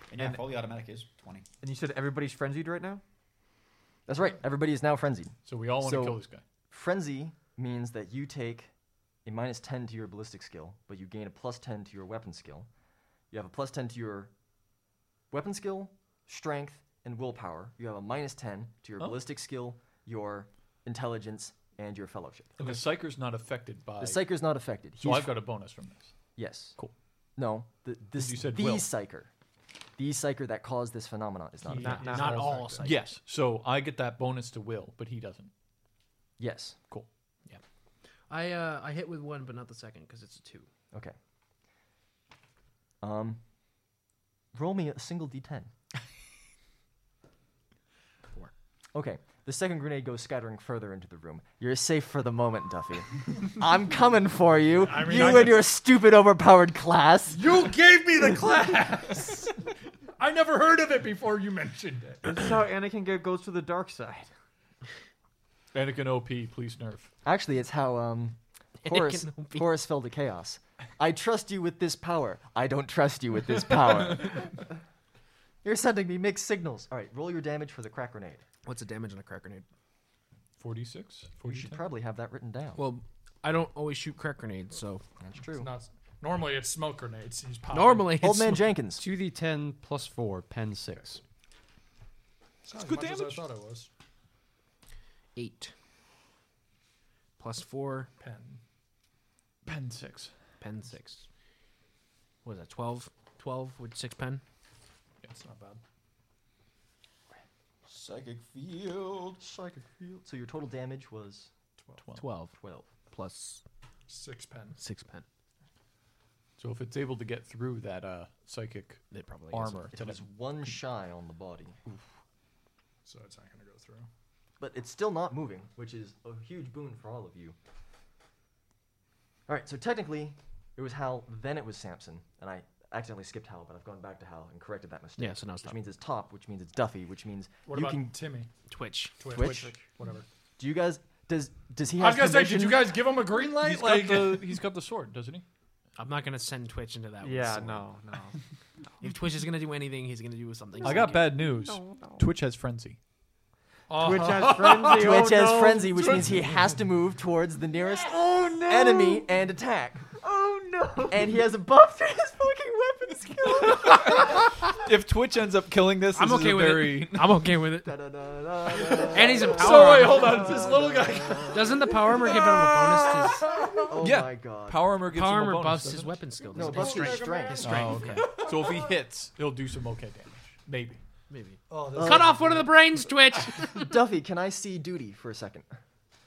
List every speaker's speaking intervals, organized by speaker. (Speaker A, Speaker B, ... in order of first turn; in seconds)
Speaker A: 0.1-1.4, 107.8-109.4
Speaker B: 1.6-3.0, 31.8-32.8, 62.3-64.3, 139.4-139.9, 147.2-148.4, 150.8-152.2, 153.9-156.3, 157.8-159.3, 160.1-161.4, 176.5-178.3
Speaker C: 4.1-8.7, 9.2-12.7, 13.3-14.3, 15.3-22.5, 24.0-25.4, 26.4-26.8, 27.4-29.3, 30.0-32.0, 36.4-36.8, 43.0-43.4, 44.5-45.7, 48.9-57.5, 67.2-74.7, 75.6-78.4, 81.4-82.8, 85.2-85.7, 88.2-89.0, 109.4-111.5, 112.6-112.9, 119.9-121.8, 124.6-127.5, 129.5-138.2, 139.3-139.6, 140.6-143.0, 154.9-160.2, 161.1-164.4, 167.8-171.9, 173.7-174.9, 176.5-177.9, 181.9-182.4, 183.8-185.7
Speaker D: 5.4-6.4, 22.6-24.2, 25.0-26.2, 28.2-28.9, 31.7-35.5, 65.7-67.1, 80.6-81.9, 92.8-93.4, 99.6-100.3, 116.6-120.2, 143.5-145.4, 150.8-153.0, 163.6-167.5, 169.5-171.0, 171.8-172.3, 174.0-176.2, 177.6-181.0
Speaker E: 31.8-33.1, 38.3-40.7, 68.8-69.7, 78.6-79.6, 82.8-85.0, 87.7-88.7, 95.3-95.7, 97.4-98.1, 100.6-101.3, 102.4-104.4, 112.1-113.6, 114.8-115.2, 119.1-119.9, 135.2-135.8, 138.7-139.4, 146.0-147.9, 149.0-151.4, 166.1-167.9, 168.9-170.6, 171.5-173.7, 175.0-177.2, 177.8-178.4, 181.3-184.0
Speaker F: 54.8-55.6, 57.3-59.6, 60.2-62.3, 85.5-88.3, 92.6-93.9, 98.2-98.6, 105.3-105.8, 114.1-114.8, 123.0-124.1, 137.7-138.5, 139.2-140.2, 142.0-144.6, 153.9-155.3, 169.9-171.6, 181.7-182.7
Speaker G: 89.0-91.2